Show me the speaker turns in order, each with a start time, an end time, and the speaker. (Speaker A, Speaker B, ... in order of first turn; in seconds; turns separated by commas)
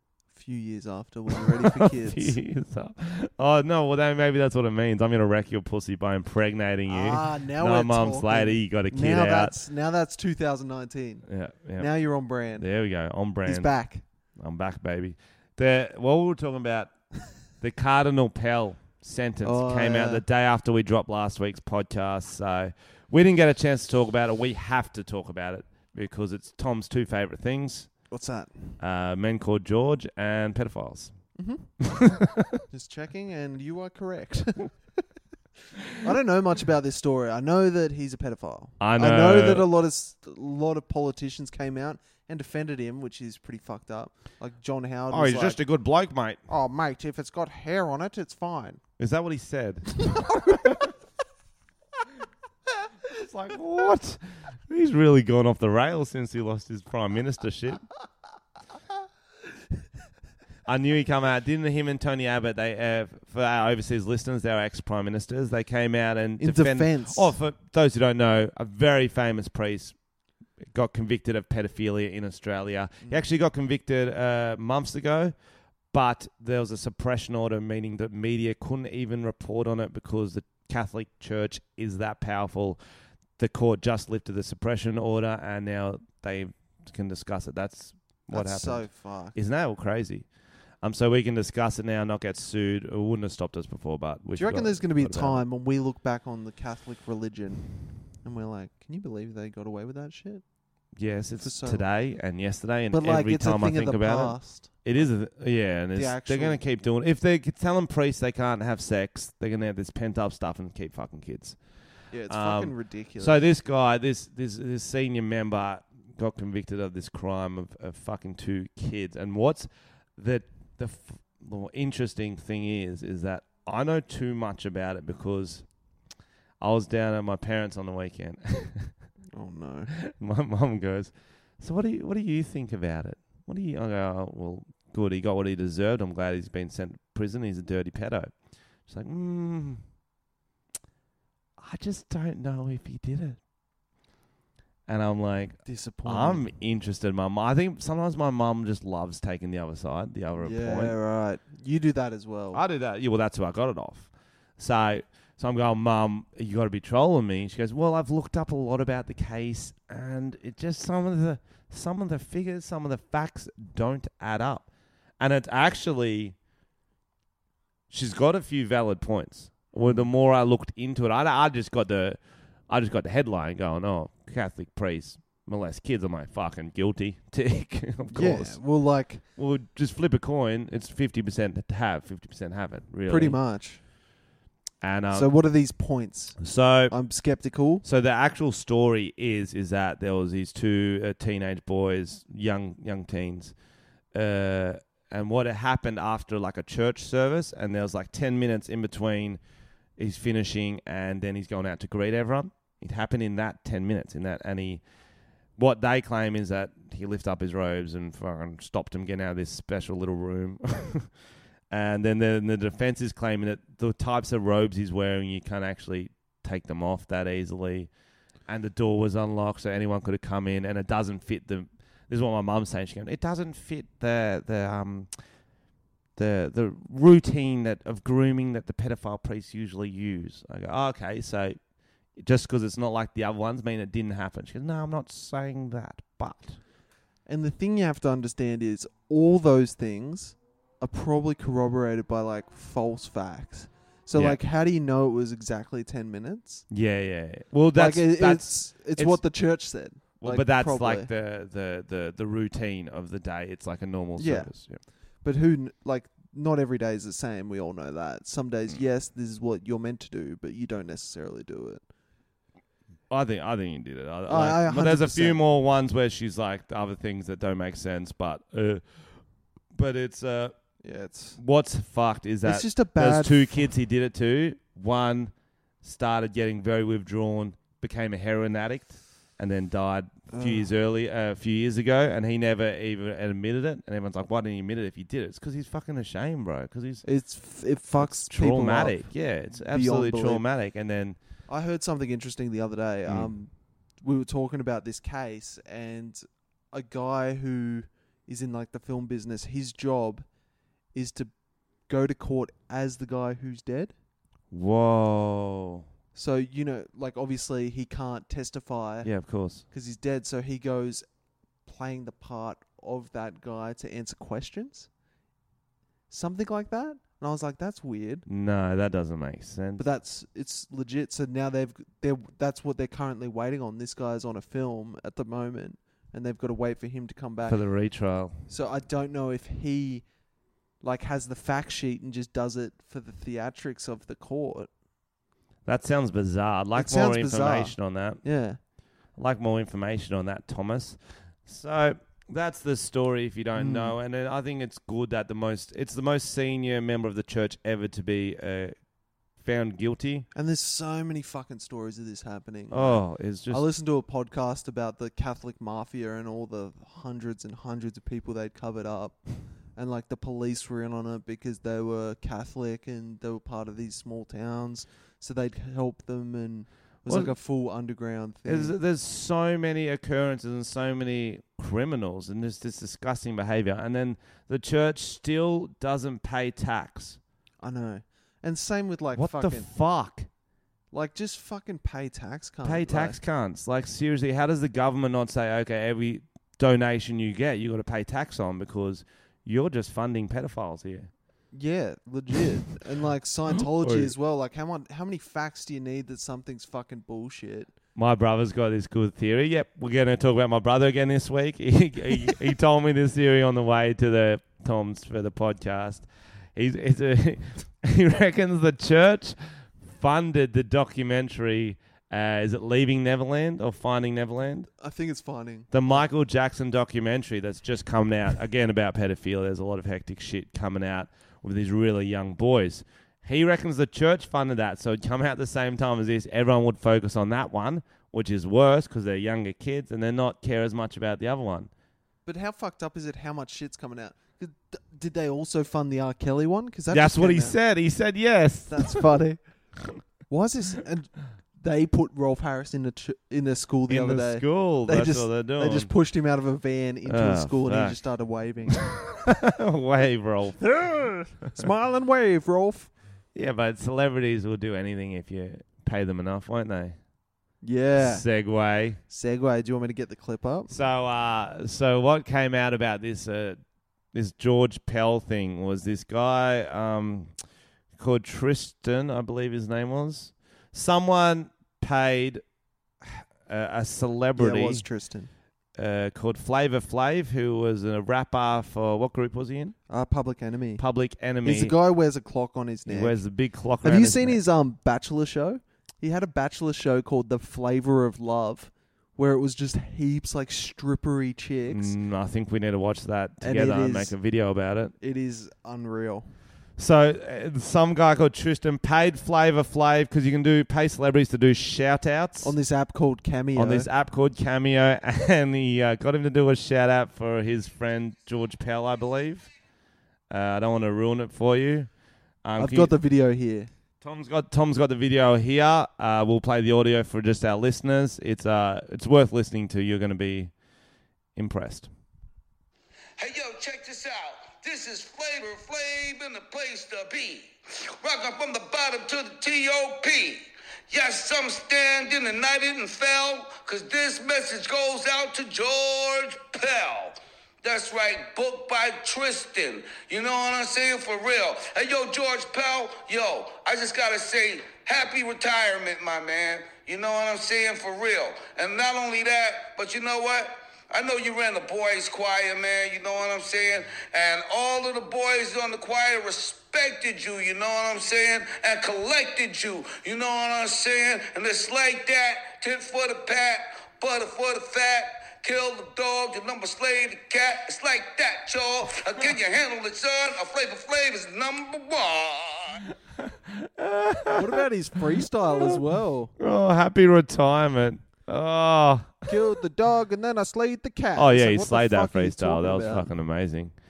Speaker A: 0.3-2.4, Speaker B: 1.8-9.6, Speaker A: 6.9-11.2, Speaker B: 11.2-11.9, Speaker A: 11.8-12.6, Speaker B: 12.5-13.7, Speaker A: 13.4-14.0, Speaker B: 14.3-16.9, Speaker B: 17.6-28.0, Speaker A: 19.4-20.2, Speaker A: 28.1-28.8, Speaker B: 28.8-31.1, Speaker A: 31.4-31.8, Speaker B: 31.8-32.5, Speaker A: 32.7-35.0, Speaker A: 36.0-45.6, Speaker B: 38.8-39.7, Speaker B: 45.1-46.4, Speaker A: 46.5-48.8, Speaker B: 49.0-50.8, Speaker B: 53.1-57.9, Speaker B: 60.6-70.0, Speaker A: 66.4-67.3, Speaker B: 70.6-75.3, Speaker B: 75.9-82.8, Speaker B: 83.4-90.3, Speaker A: 88.3-89.3, Speaker B: 90.8-95.4, Speaker A: 94.3-100.4, Speaker B: 100.9-111.6, Speaker A: 101.4-101.8, Speaker A: 102.9-104.8, Speaker A: 105.9-106.6, Speaker A: 112.1-113.4, Speaker B: 112.3-125.7, Speaker B: 126.6-128.9, Speaker A: 129.3-129.9, Speaker B: 130.0-138.3, Speaker B: 138.8-139.8, Speaker B: 141.6-143.4, Speaker B: 144.9-150.9, Speaker A: 145.6-146.5, Speaker A: 150.4-152.6, Speaker B: 152.5-166.3, Speaker B: 167.9-178.6, Speaker A: 169.8-170.1, Speaker A: 178.1-179.2, Speaker B: 179.3-183.4, Speaker A: 183.1-183.8, Speaker B: 184.8-185.3, Speaker A: 185.1-187.8, Speaker B: 186.4-186.9, Speaker B: 187.8-193.5, Speaker B: 194.1-199.4, Speaker B: 200.0-204.8, Speaker B: 205.6-211.1, Speaker B: 211.7-217.9, Speaker B: 218.5-225.3, Speaker B: 226.2-231.6, Speaker B: 232.2-236.6, Speaker A: 237.3-246.7, Speaker B: 244.1-244.4, Speaker B: 246.7-249.2, Speaker A: 247.7-251.1, Speaker B: 250.2-254.8, Speaker A: 254.2-261.8, Speaker B: 263.1-269.2, Speaker A: 264.2-265.4, Speaker B: 269.7-270.6, Speaker A: 270.8-271.4, Speaker B: 271.4-287.0, Speaker A: 272.4-273.7, Speaker A: 280.3-280.7, Speaker A: 287.0-290.4, Speaker B: 288.0-291.2, Speaker A: 291.5-300.2, Speaker B: 293.1-293.4, Speaker A: 300.9-301.3, Speaker A: 301.8-303.9, Speaker B: 304.5-305.8, Speaker A: 306.1-309.1, Speaker B: 309.0-309.6, Speaker A: 309.7-311.1, Speaker A: 311.6-314.9, Speaker A: 316.1-318.2, Speaker B: 318.2-319.8, Speaker A: 319.8-327.6, Speaker B: 327.4-328.4, Speaker A: 328.5-330.1, Speaker A: 330.8-334.7, Speaker B: 335.6-338.2, Speaker A: 336.7-338.6, Speaker B: 339.1-348.8, Speaker A: 343.5-343.9, Speaker B: 349.4-350.3, Speaker A: 350.3-368.7, Speaker B: 352.7-353.6, Speaker B: 367.1-367.3, Speaker B: 368.4-377.2, Speaker A: 377.6-379.7, Speaker B: 379.1-380.3, Speaker A: 380.9-383.2, Speaker B: 382.6-391.1, Speaker A: 391.5-397.7, Speaker B: 393.7-394.1, Speaker B: 397.9-414.7, Speaker A: 414.8-416.0, Speaker B: 415.7-431.7, Speaker A: 432.2-437.6, Speaker B: 436.9-439.0, Speaker A: 438.7-439.4, Speaker A: 440.3-449.0, Speaker B: 443.9-445.9, Speaker B: 447.1-448.0, Speaker B: 448.7-451.6, Speaker A: 451.4-452.9, Speaker B: 453.3-457.0, Speaker A: 457.6-458.2, Speaker B: 457.9-459.0, Speaker A: 459.1-460.7, Speaker B: 460.7-463.6, Speaker B: 464.1-467.3, Speaker B: 467.9-472.4, Speaker B: 473.0-474.8, Speaker A: 474.4-475.3, Speaker B: 475.7-479.8, Speaker A: 479.9-480.8, Speaker B: 480.8-481.7, Speaker A: 481.4-483.2, Speaker B: 482.8-484.4, Speaker A: 483.8-491.9, Speaker B: 491.7-494.9, Speaker A: 493.4-494.1, Speaker A: 495.0-496.3, Speaker B: 496.8-502.5, Speaker A: 502.4-503.9, Speaker B: 503.5-509.5, Speaker B: 510.3-512.9, Speaker A: 512.5-513.7, Speaker B: 514.0-520.5, Speaker B: 521.3-521.9, Speaker C: 523.2-572.8, Speaker B: 573.2-574.6, Speaker A: 574.3-576.3, Speaker B: 576.4-579.3, Speaker A: 579.3-583.1, Speaker B: 581.1-583.8